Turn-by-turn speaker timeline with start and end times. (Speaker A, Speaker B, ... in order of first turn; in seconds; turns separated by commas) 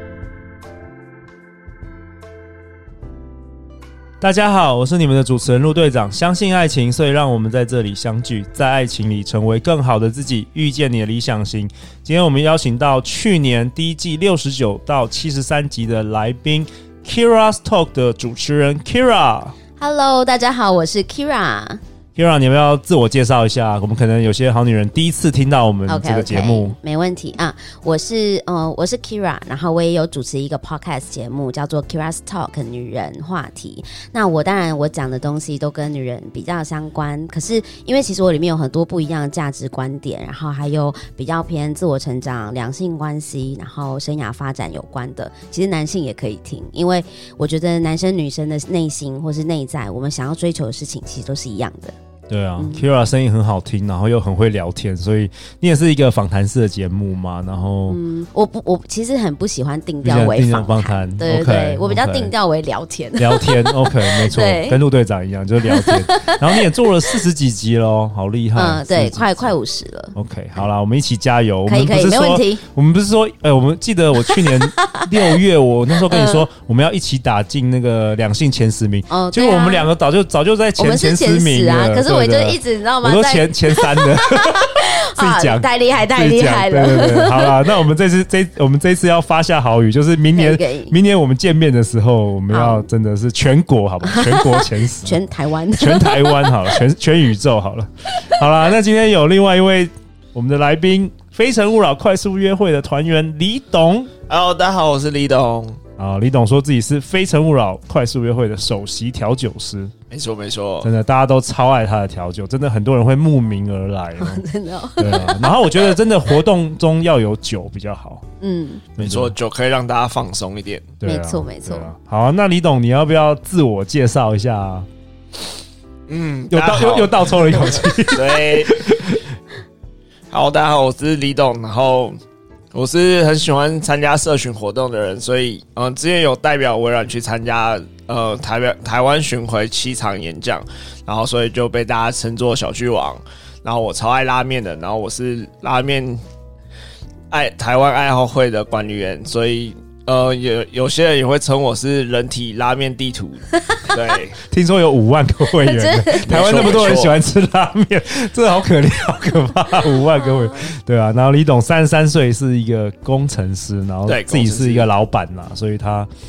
Speaker A: 4.2-19.5, Speaker B: 19.8-21.8, Speaker A: 22.1-26.8, Speaker B: 25.9-51.9, Speaker A: 52.3-58.0, Speaker B: 52.6-52.8, Speaker B: 57.9-64.8, Speaker A: 60.0-62.3, Speaker A: 63.2-69.5, Speaker B: 65.7-66.6, Speaker B: 68.5-70.1, Speaker A: 70.1-95.2, Speaker B: 71.7-72.6, Speaker B: 74.2-75.4, Speaker B: 76.1-76.5, Speaker B: 79.1-79.9, Speaker B: 80.8-87.5, Speaker B: 90.3-90.9, Speaker B: 92.5-92.9, Speaker B: 94.0-96.8, Speaker A: 95.7-104.1, Speaker C: 104.3-105.8, Speaker A: 106.0-109.9, Speaker C: 110.1-110.9, Speaker A: 110.8-114.4, Speaker B: 114.2-115.9, Speaker A: 115.0-118.2, Speaker B: 118.4-118.9, Speaker C: 119.0-120.9, Speaker A: 119.0-119.3, Speaker A: 121.0-124.9, Speaker B: 121.0-121.9, Speaker C: 126.1-128.7, Speaker A: 126.5-129.2, Speaker C: 130.3-132.2, Speaker C: 132.7-146.2, Speaker C: 147.3-154.4, Speaker B: 153.5-153.9, Speaker A: 154.5-166.1, Speaker B: 155.5-156.3, Speaker C: 156.2-157.2, Speaker C: 164.1-164.9